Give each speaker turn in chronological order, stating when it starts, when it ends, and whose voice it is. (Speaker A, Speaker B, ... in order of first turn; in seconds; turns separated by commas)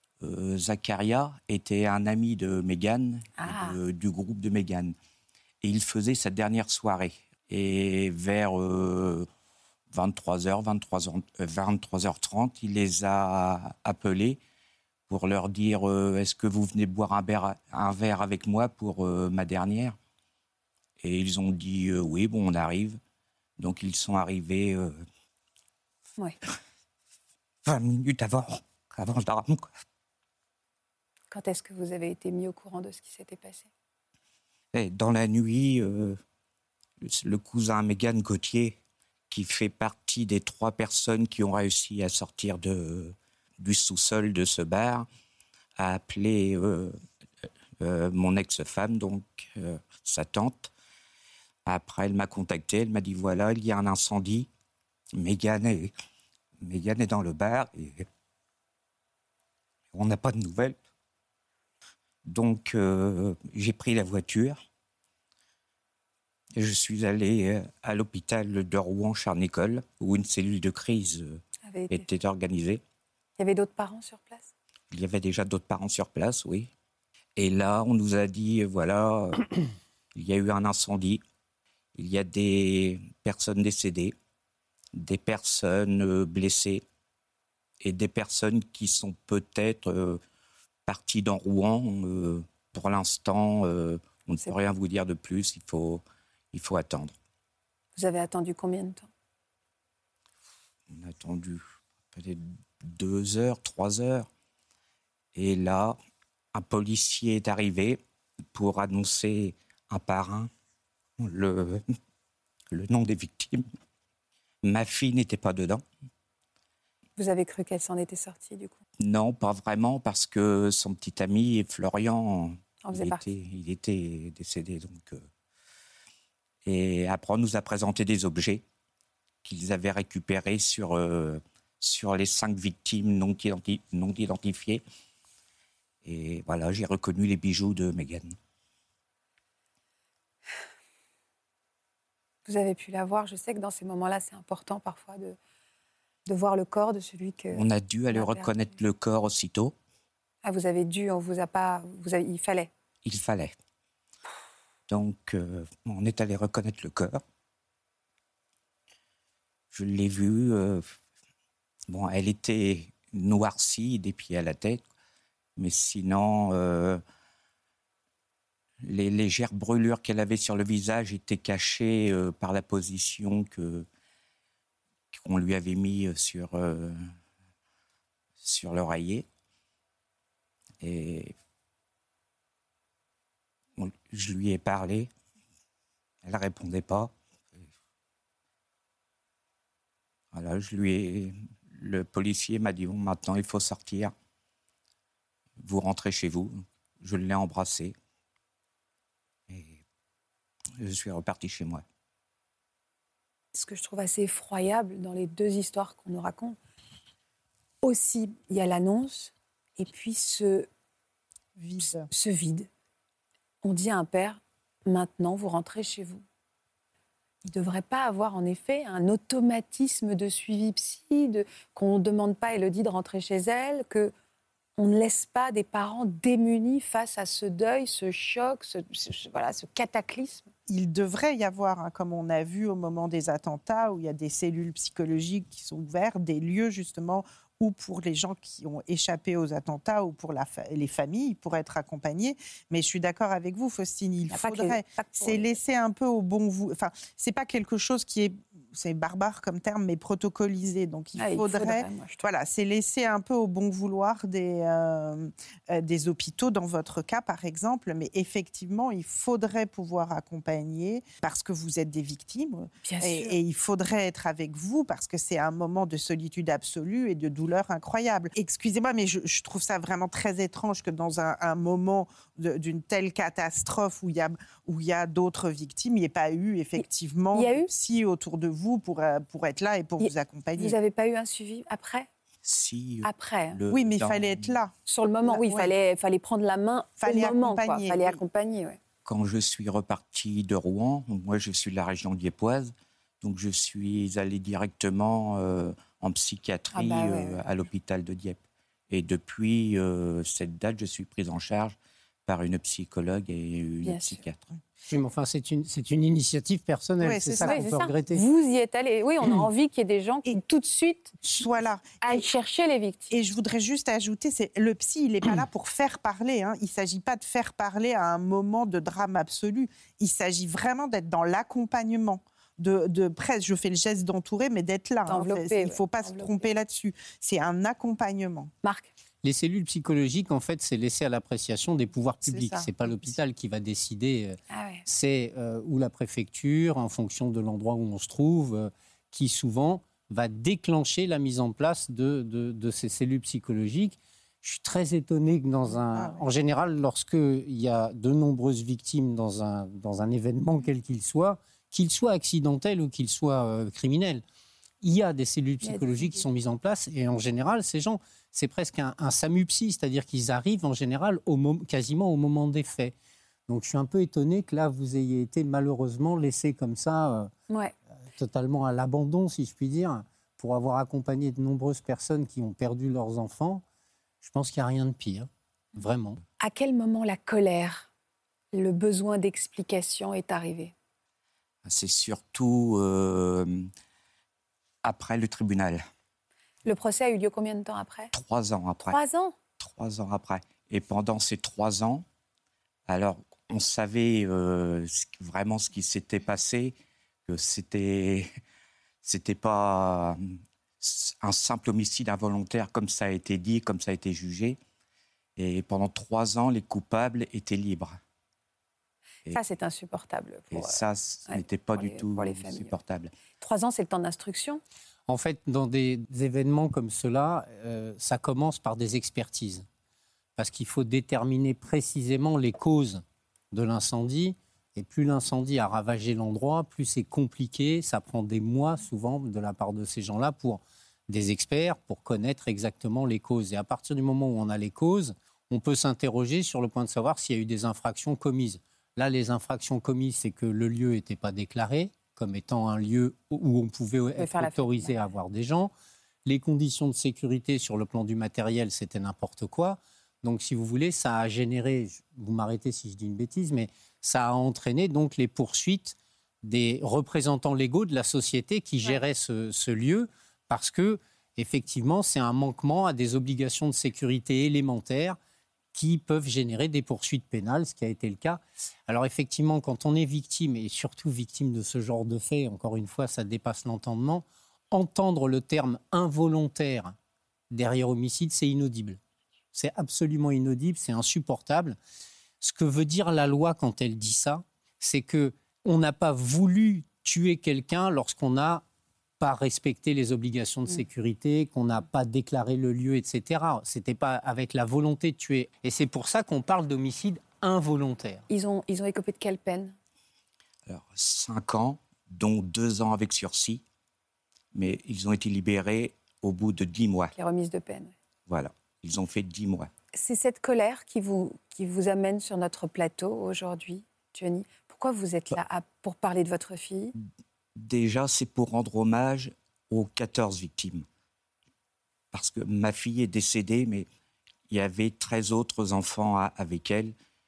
Speaker A: 0.2-5.0, Speaker B: 3.4-3.8, Speaker A: 5.6-9.3, Speaker A: 9.9-14.4, Speaker A: 15.1-20.0, Speaker A: 21.0-23.0, Speaker A: 23.6-24.9, Speaker A: 27.6-29.7, Speaker B: 31.3-33.7, Speaker A: 34.7-36.2, Speaker A: 37.0-38.8, Speaker A: 39.3-45.1, Speaker A: 45.8-46.9, Speaker A: 47.8-50.7, Speaker A: 51.7-54.5, Speaker A: 55.2-55.9, Speaker A: 56.6-58.1, Speaker A: 59.9-60.8, Speaker A: 62.3-64.6, Speaker A: 66.6-72.8, Speaker B: 71.7-72.1, Speaker B: 73.4-74.5, Speaker A: 74.9-76.7, Speaker A: 77.4-79.5, Speaker A: 80.2-81.2, Speaker A: 82.0-84.1, Speaker A: 84.9-86.8, Speaker A: 87.8-90.2, Speaker A: 90.9-97.2, Speaker B: 98.0-99.1, Speaker A: 100.9-101.6, Speaker A: 102.1-104.3, Speaker A: 105.3-106.0, Speaker A: 106.5-108.0, Speaker A: 108.5-110.5, Speaker A: 111.2-111.8, Speaker A: 112.7-113.6, Speaker A: 114.6-115.8, Speaker B: 117.2-118.8, Speaker A: 119.0-125.3, Speaker B: 122.8-123.2, Speaker A: 126.7-128.6, Speaker A: 129.4-134.8, Speaker A: 136.0-138.4, Speaker B: 142.4-145.4, Speaker B: 146.3-148.5, Speaker A: 147.5-149.7, Speaker B: 150.4-152.7, Speaker A: 153.1-153.6, Speaker A: 154.9-157.2, Speaker A: 159.7-160.9, Speaker A: 161.9-164.9, Speaker A: 165.6-167.0, Speaker A: 168.8-173.9, Speaker A: 175.1-177.0, Speaker A: 178.4-179.3, Speaker A: 180.8-181.3, Speaker A: 183.8-185.1, Speaker A: 186.3-187.1, Speaker A: 190.3-194.1, Speaker A: 195.6-197.9, Speaker A: 199.5-199.8, Speaker A: 200.8-201.8, Speaker B: 203.5-206.6, Speaker B: 207.8-210.7, Speaker C: 211.6-212.1, Speaker B: 211.8-212.7, Speaker B: 213.6-216.2, Speaker B: 217.5-224.1, Speaker B: 224.8-230.5, Speaker C: 230.7-280.8, Speaker B: 244.3-245.6, Speaker B: 251.2-252.3, Speaker B: 262.8-263.4, Speaker B: 277.3-277.7, Speaker B: 280.0-282.1, Speaker A: 282.4-284.6, Speaker B: 283.0-283.6, Speaker C: 283.7-284.7, Speaker B: 284.9-288.8, Speaker C: 285.2-285.7, Speaker C: 287.0-288.2, Speaker A: 289.1-304.4, Speaker B: 296.7-297.4, Speaker B: 303.8-304.2, Speaker D: 304.9-308.3, Speaker C: 307.0-307.7, Speaker B: 307.4-311.2, Speaker C: 311.2-312.2, Speaker B: 312.0-313.2, Speaker C: 313.1-328.5, Speaker B: 325.1-326.5, Speaker B: 328.6-328.9, Speaker D: 329.2-354.2, Speaker C: 332.2-333.2, Speaker B: 334.5-334.9, Speaker C: 345.7-346.3, Speaker D: 354.8-362.9, Speaker B: 355.6-356.3, Speaker D: 363.5-367.3, Speaker B: 367.5-367.8, Speaker D: 368.2-373.6, Speaker D: 374.2-376.2, Speaker B: 376.4-377.9, Speaker B: 378.5-380.7, Speaker A: 381.6-383.7, Speaker A: 384.8-385.8, Speaker B: 386.6-388.1, Speaker A: 388.1-389.0, Speaker B: 388.9-389.4, Speaker A: 389.6-392.1, Speaker A: 392.9-396.8, Speaker A: 397.3-398.3, Speaker A: 399.0-400.2, Speaker A: 400.8-404.6, Speaker A: 405.4-408.0, Speaker B: 409.3-412.7, Speaker A: 410.5-413.1, Speaker B: 413.4-414.6, Speaker D: 415.1-419.7, Speaker D: 420.4-445.7, Speaker B: 444.2-445.0, Speaker D: 446.2-465.2, Speaker D: 465.8-477.0, Speaker D: 477.5-479.0, Speaker D: 479.5-481.8, Speaker D: 482.4-488.6, Speaker D: 489.2-498.2, Speaker B: 498.3-499.8, Speaker A: 500.7-503.6, Speaker A: 504.5-507.1, Speaker B: 507.1-507.9, Speaker A: 508.3-509.7, Speaker B: 509.9-517.0, Speaker A: 517.6-520.9, Speaker A: 522.1-523.9, Speaker A: 524.5-526.9